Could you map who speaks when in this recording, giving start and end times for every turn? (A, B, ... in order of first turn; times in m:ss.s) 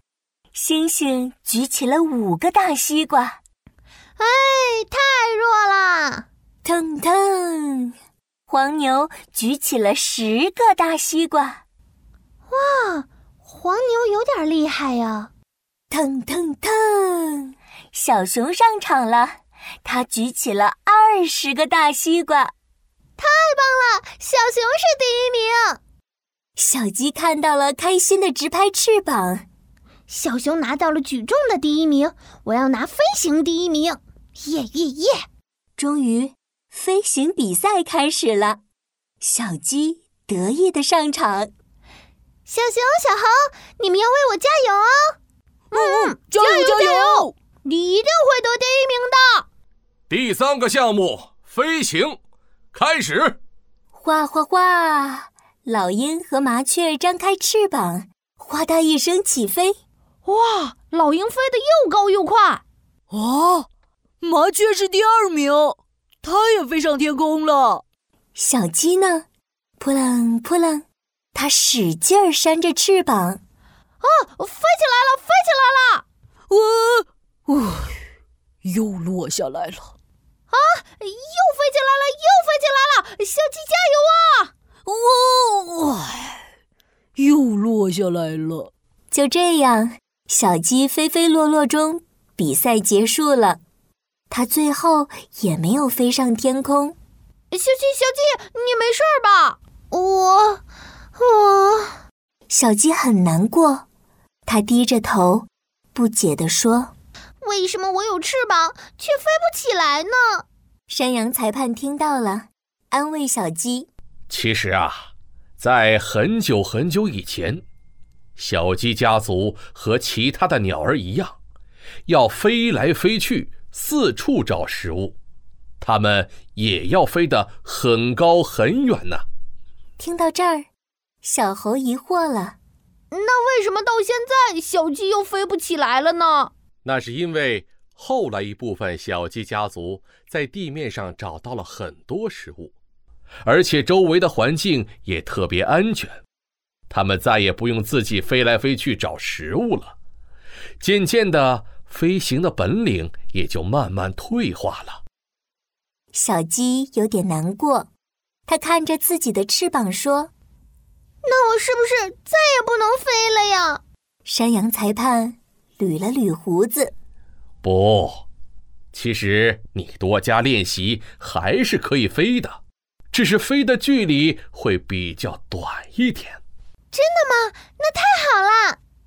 0:00.5-0:03.4 A
0:04.2-0:06.2 B
0:06.6-0:07.9 A
0:08.5-0:11.6 A
0:12.5-0:15.3 B
0:15.9-0:22.5 A
0:23.2-0:25.8 B
0:26.6-0:29.4 A
0:30.1-0:35.2 B
0:35.8-0:38.6 A
0:39.2-0:41.5 A
0:42.5-0:45.2 B
0:45.7-0:47.3 C
0:45.7-0:49.4 B
0:50.1-0:52.2 D
0:52.7-0:53.4 D
0:53.9-0:59.8 A
1:00.2-1:02.6 B
1:03.1-1:03.7 C
1:04.2-1:07.8 C
1:08.4-1:09.2 A
1:09.8-1:13.4 A
1:14.0-1:16.0 B
1:16.5-1:18.0 C
1:18.6-1:19.9 C
1:20.5-1:24.5 B
1:24.8-1:26.4 C
1:27.2-1:28.7 C
1:29.1-1:33.6 A
1:34.3-1:37.0 A
1:37.5-1:40.6 B
1:41.2-1:42.0 B
1:42.5-1:43.8 A
1:44.4-1:46.9 A
1:47.4-1:50.4 B
1:50.9-1:53.9 A
1:54.3-1:57.6 D
1:58.4-2:01.4 D
2:02.1-2:05.2 D
2:05.8-2:09.2 D
2:10.0-2:10.7 A
2:11.2-2:12.6 A
2:13.1-2:16.5 B
2:16.8-2:22.7 D
2:23.4-2:26.2 D
2:26.9-2:30.0 D
2:30.8-2:35.0 D
2:36.1-2:37.9 A
2:38.5-2:40.3 A
2:41.2-2:43.8 B
2:44.2-2:46.9 A
2:47.6-2:48.2 D
2:48.9-2:52.6 D
2:53.1-2:56.4 D
2:56.9-2:58.8 B